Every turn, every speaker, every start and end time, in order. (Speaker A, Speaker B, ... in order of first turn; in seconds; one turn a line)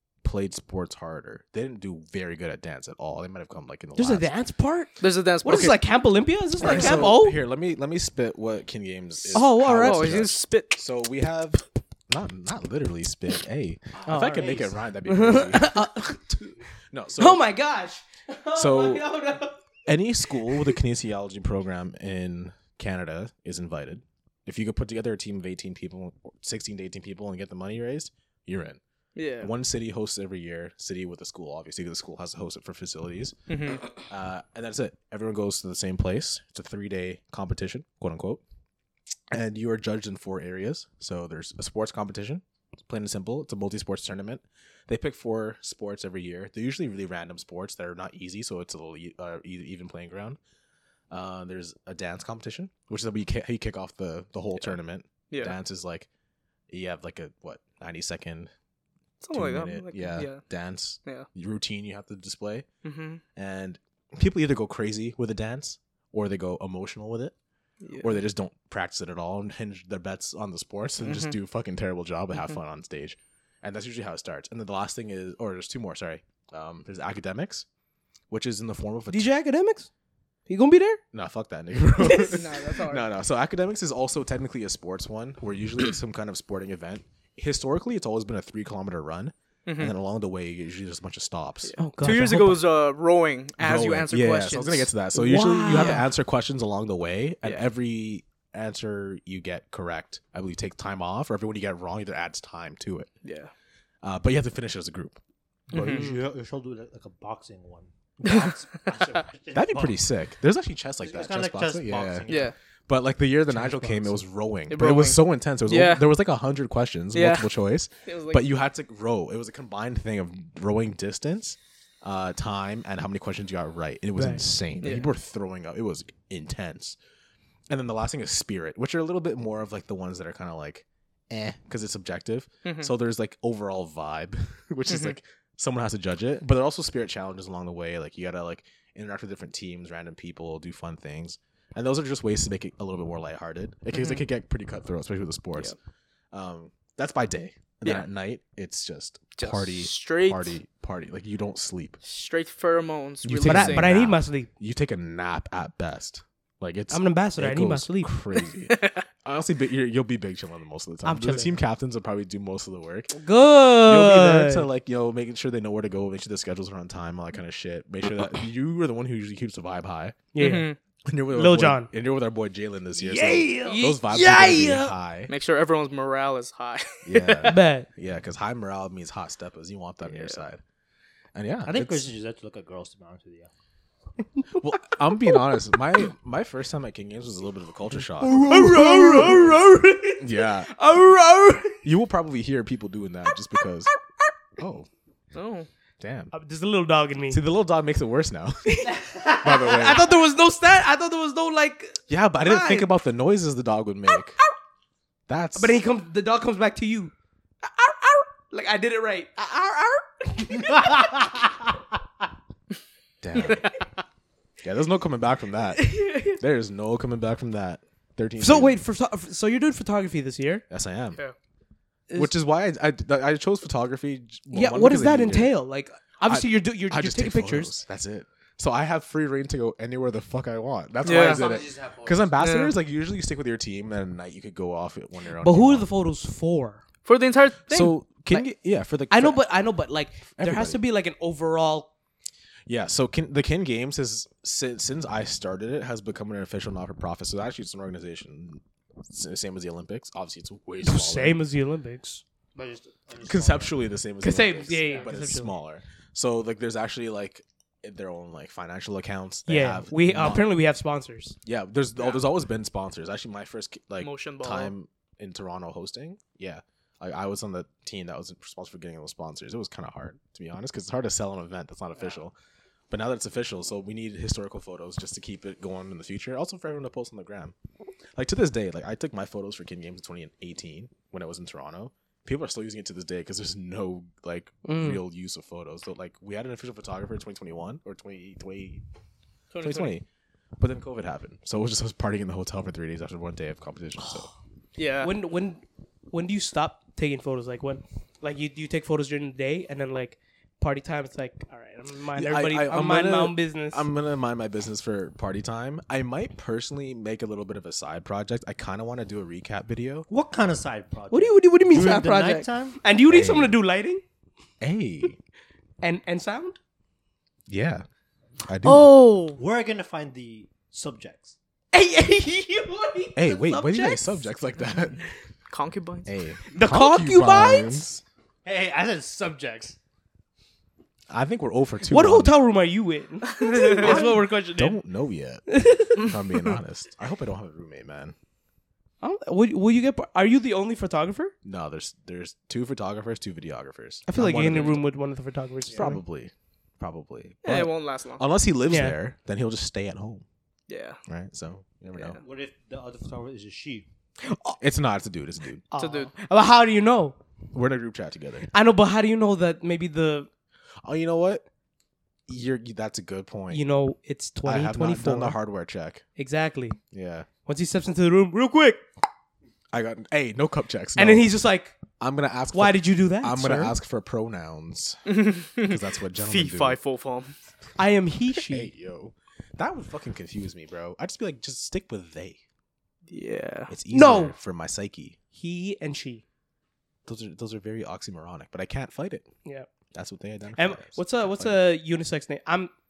Speaker A: 0.2-4.3
Speaker B: 4.0-7.4
Speaker C: 5.0-5.8
Speaker A: 6.6-17.5
Speaker C: 6.6-7.2
Speaker C: 9.2-10.8
Speaker B: 9.3-10.2
Speaker B: 14.1-16.2
Speaker B: 17.2-19.6
Speaker A: 18.6-19.1
Speaker A: 19.9-28.8
Speaker C: 29.1-29.5
Speaker A: 29.4-33.4
Speaker C: 33.5-33.9
Speaker A: 33.9-38.4
Speaker A: 39.3-50.4
Speaker A: 51.1-56.1
Speaker C: 55.3-55.5
Speaker A: 56.7-58.5
Speaker C: 59.2-60.4
Speaker A: 59.3-62.7
Speaker C: 62.8-63.2
Speaker A: 63.4-67.3
Speaker C: 67.8-68.2
Speaker A: 68.0-77.7
Speaker C: 71.0-71.4
Speaker A: 78.3-79.3
Speaker B: 79.1-79.9
Speaker B: 80.5-81.0
Speaker A: 81.1-91.8
Speaker B: 82.0-82.4
Speaker C: 82.1-83.1
Speaker C: 89.7-89.9
Speaker C: 91.7-94.9
Speaker B: 91.8-92.6
Speaker A: 93.6-103.1
Speaker B: 95.1-96.1
Speaker C: 95.7-96.0
Speaker C: 103.2-103.5
Speaker A: 104.0-105.2
Speaker D: 105.7-110.0
Speaker C: 105.7-106.1
Speaker B: 105.9-106.2
Speaker C: 108.2-108.5
Speaker A: 109.5-127.0
Speaker D: 111.0-112.5
Speaker C: 112.3-112.5
Speaker C: 114.7-116.1
Speaker C: 117.1-117.5
Speaker C: 118.0-118.5
Speaker B: 124.2-124.4
Speaker C: 124.8-125.1
Speaker A: 127.7-145.8
Speaker C: 132.7-132.9
Speaker C: 134.9-135.2
Speaker C: 143.9-144.2
Speaker A: 146.3-152.0
Speaker C: 149.4-150.6
Speaker C: 152.0-153.9
Speaker A: 153.2-163.2
Speaker B: 153.4-154.5
Speaker B: 156.9-158.1
Speaker C: 158.7-159.0
Speaker B: 161.1-161.6
Speaker B: 163.2-164.7
Speaker A: 163.8-170.2
Speaker B: 170.3-170.7
Speaker C: 170.4-170.8
Speaker A: 171.1-175.3
Speaker B: 171.3-171.9
Speaker D: 173.0-173.9
Speaker B: 173.6-174.9
Speaker C: 175.3-177.6
Speaker A: 177.1-180.6
Speaker B: 177.4-177.9
Speaker C: 180.0-180.4
Speaker A: 181.3-182.1
Speaker D: 181.7-183.5
Speaker A: 184.6-188.5
Speaker D: 188.2-189.6
Speaker B: 188.3-191.8
Speaker A: 189.2-189.5
Speaker A: 190.2-190.7
Speaker A: 191.8-193.9
Speaker A: 194.6-194.9
Speaker C: 195.3-195.7
Speaker A: 196.0-196.3
Speaker B: 196.3-197.4
Speaker A: 197.3-200.1
Speaker B: 198.7-202.9
Speaker A: 202.1-204.4
Speaker A: 205.3-205.8
Speaker B: 205.6-211.4
Speaker A: 213.2-213.7
Speaker A: 214.6-218.8
Speaker B: 218.4-220.6
Speaker A: 220.7-221.2
Speaker A: 222.1-225.6
Speaker B: 224.5-227.7
Speaker A: 226.2-235.9
Speaker C: 231.0-231.5
Speaker D: 231.1-232.4
Speaker C: 232.4-232.7
Speaker B: 235.4-236.8
Speaker C: 237.1-238.0
Speaker A: 237.7-239.4
Speaker B: 239.1-241.9
Speaker A: 240.3-240.8
Speaker A: 242.7-251.4
Speaker B: 250.8-252.2
Speaker D: 252.6-253.8
Speaker A: 253.2-260.5
Speaker B: 254.2-255.5
Speaker D: 254.7-255.1
Speaker B: 259.5-261.4
Speaker A: 261.4-272.4
Speaker C: 264.0-264.7
Speaker A: 272.9-277.6
Speaker A: 278.2-288.8
Speaker B: 284.6-285.0
Speaker C: 289.5-289.9
Speaker A: 289.6-290.1
Speaker A: 290.6-294.3
Speaker C: 294.8-295.1
Speaker B: 295.0-303.9
Speaker A: 302.1-310.1
Speaker D: 310.1-312.8
Speaker B: 311.1-314.0
Speaker A: 313.1-313.6
Speaker A: 314.6-315.2
Speaker B: 315.8-316.6
Speaker A: 317.5-317.9
Speaker A: 318.4-319.0
Speaker C: 318.7-319.4
Speaker D: 319.4-321.4
Speaker B: 321.7-324.3
Speaker A: 323.2-325.1
Speaker C: 325.5-326.1
Speaker A: 326.1-328.0
Speaker B: 326.5-327.9
Speaker D: 328.4-329.8
Speaker A: 331.1-332.3
Speaker B: 331.8-334.8
Speaker C: 333.4-334.1
Speaker A: 333.8-338.1
Speaker B: 335.5-336.1
Speaker B: 339.0-341.3
Speaker A: 341.4-344.8
Speaker B: 344.1-346.0
Speaker D: 345.7-345.9
Speaker A: 345.7-350.2
Speaker C: 347.4-348.2
Speaker B: 348.7-349.0
Speaker C: 350.7-351.0
Speaker A: 351.1-352.2
Speaker D: 352.2-353.9
Speaker B: 354.2-354.6
Speaker A: 354.6-355.6
Speaker B: 355.7-357.2
Speaker C: 355.8-356.1
Speaker A: 357.5-358.5
Speaker B: 358.5-360.3
Speaker A: 360.8-361.4
Speaker A: 362.3-363.6
Speaker B: 363.5-365.4
Speaker A: 364.4-366.0
Speaker B: 366.2-366.8
Speaker A: 366.9-367.3
Speaker B: 367.5-368.8
Speaker A: 369.7-371.3
Speaker B: 371.0-371.8
Speaker A: 372.0-375.0
Speaker B: 372.5-373.8
Speaker C: 375.1-377.4
Speaker A: 375.6-376.8
Speaker B: 377.8-378.7
Speaker A: 378.3-382.4
Speaker C: 383.1-383.7
Speaker A: 383.7-385.2
Speaker B: 383.9-384.4
Speaker B: 385.4-386.2
Speaker A: 387.1-389.3
Speaker A: 389.9-391.6
Speaker B: 390.6-392.7